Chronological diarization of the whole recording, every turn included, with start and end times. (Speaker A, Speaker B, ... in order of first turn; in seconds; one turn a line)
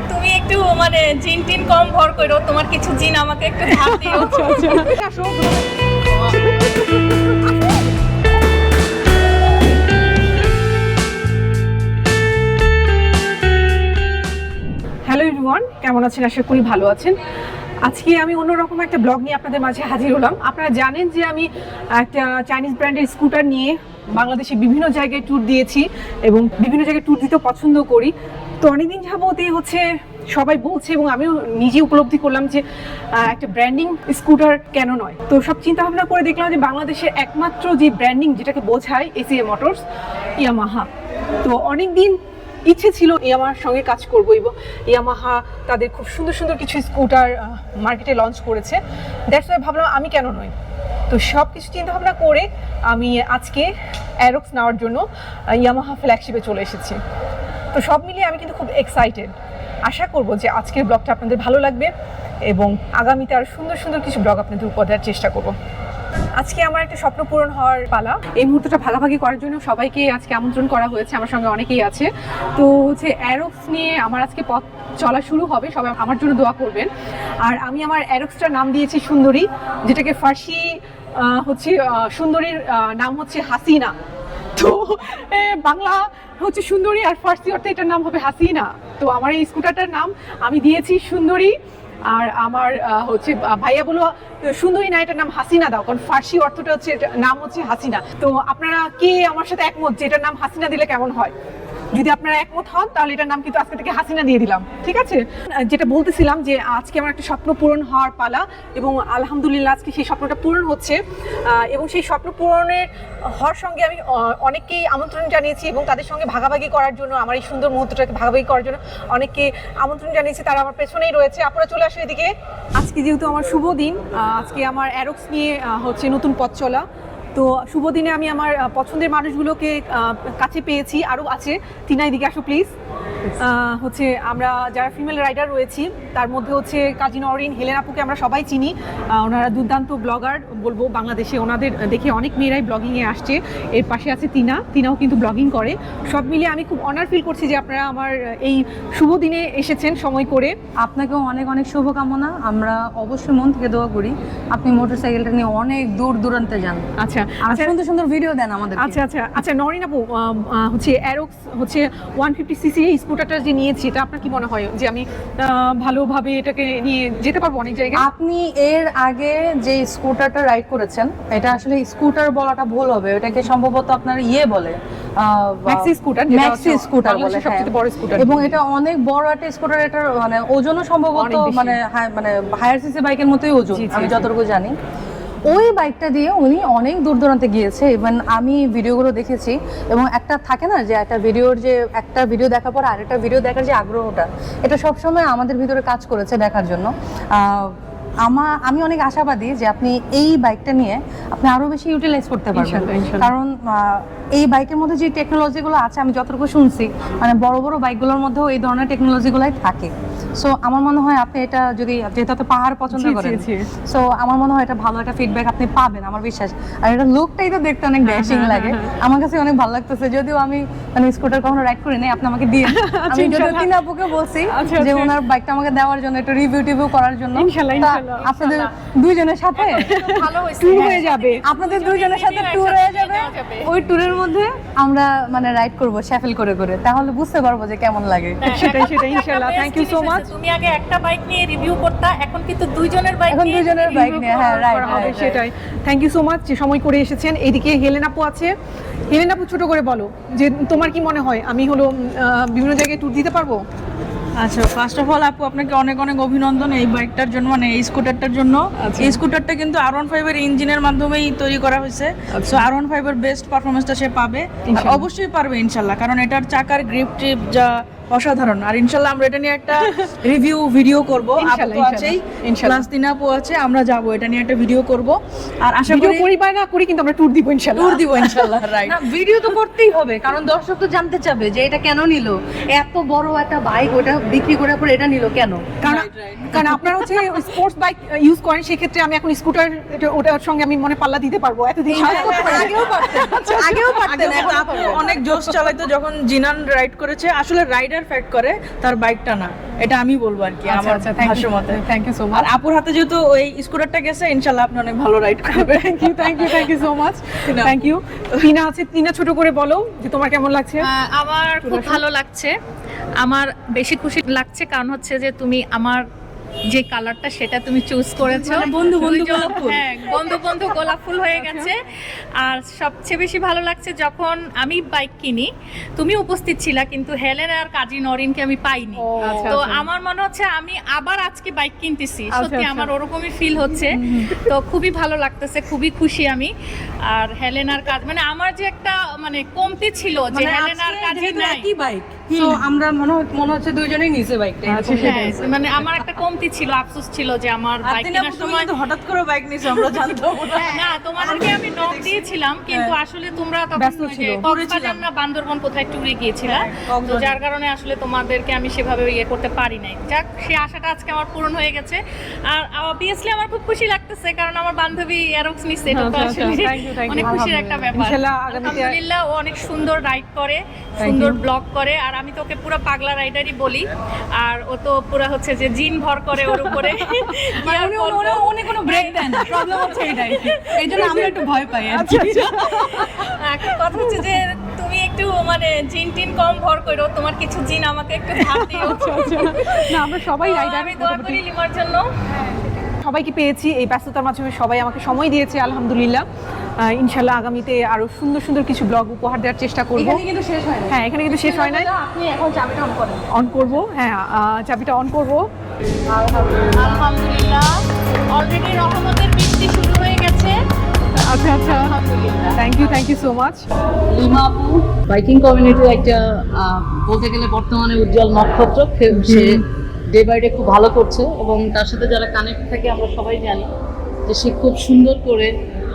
Speaker A: 0.1-4.9
Speaker B: 3.7-5.7
Speaker B: 6.2-7.3
Speaker B: 15.1-17.2
Speaker B: 17.8-32.6
Speaker B: 33.1-39.8
Speaker B: 40.4-40.9
Speaker B: 41.4-48.8
Speaker B: 49.3-50.5
Speaker B: 51.1-53.7
Speaker B: 54.2-57.0
Speaker B: 57.7-59.3
Speaker B: 59.9-61.9
Speaker B: 62.5-65.5
Speaker B: 66.4-76.9
Speaker B: 77.4-83.9
Speaker B: 84.5-91.5
Speaker B: 92.1-101.3
Speaker B: 101.9-132.7
Speaker B: 133.4-150.5
Speaker C: 150.8-159.0
Speaker B: 157.0-157.7
Speaker B: 158.8-168.0
Speaker C: 167.9-184.7
Speaker B: 175.7-178.5
Speaker B: 181.1-181.8
Speaker B: 183.7-184.3
Speaker C: 185.4-230.1
Speaker B: 202.5-203.3
Speaker B: 212.9-213.7
Speaker B: 218.0-218.9
Speaker B: 222.6-223.7
Speaker B: 224.5-225.1
Speaker B: 227.3-228.3
Speaker A: 227.8-228.7
Speaker A: 229.6-233.7
Speaker B: 229.8-231.4
Speaker C: 230.7-238.6
Speaker A: 238.4-244.2
Speaker B: 238.4-240.3
Speaker C: 243.3-245.4
Speaker B: 243.8-248.5
Speaker B: 249.1-253.6
Speaker D: 254.4-276.3
Speaker B: 258.8-259.2
Speaker B: 262.3-262.6
Speaker B: 264.7-265.0
Speaker B: 269.8-270.1
Speaker B: 271.4-272.8
Speaker B: 275.9-278.4
Speaker D: 277.7-279.0
Speaker C: 278.8-285.8
Speaker D: 285.8-286.5
Speaker B: 285.8-295.0
Speaker C: 286.5-287.0
Speaker C: 291.9-295.3
Speaker D: 292.0-293.0
Speaker D: 293.7-301.8
Speaker B: 300.6-302.5
Speaker D: 302.3-306.7
Speaker B: 305.5-310.9
Speaker D: 307.5-307.8
Speaker A: 310.8-312.5
Speaker B: 311.6-312.0
Speaker A: 313.2-316.0
Speaker A: 316.7-321.8
Speaker D: 318.2-319.8
Speaker B: 319.2-321.7
Speaker A: 322.4-336.5
Speaker B: 329.0-329.9
Speaker B: 332.3-332.9
Speaker C: 334.0-334.3
Speaker B: 334.2-334.4
Speaker A: 337.1-341.7
Speaker C: 340.3-346.1
Speaker D: 342.3-342.6
Speaker B: 344.7-345.4
Speaker A: 345.0-348.7
Speaker D: 347.8-352.9
Speaker A: 350.6-373.9
Speaker B: 353.8-354.4
Speaker D: 354.4-355.1
Speaker D: 356.4-357.3
Speaker B: 365.9-367.3
Speaker C: 367.2-367.9
Speaker B: 367.9-368.9
Speaker C: 371.0-371.4
Speaker A: 374.4-381.3
Speaker C: 377.5-382.9
Speaker B: 380.9-381.4
Speaker B: 381.9-384.2
Speaker A: 382.7-392.1
Speaker B: 388.4-391.4
Speaker B: 392.8-396.2
Speaker B: 396.8-400.2
Speaker C: 399.9-403.3
Speaker B: 400.9-401.9
Speaker B: 403.3-405.4
Speaker C: 406.2-406.6
Speaker A: 406.7-407.7
Speaker A: 408.3-410.5
Speaker B: 411.2-411.9
Speaker A: 411.6-412.6
Speaker B: 412.6-413.6
Speaker E: 414.1-423.7
Speaker E: 424.3-425.5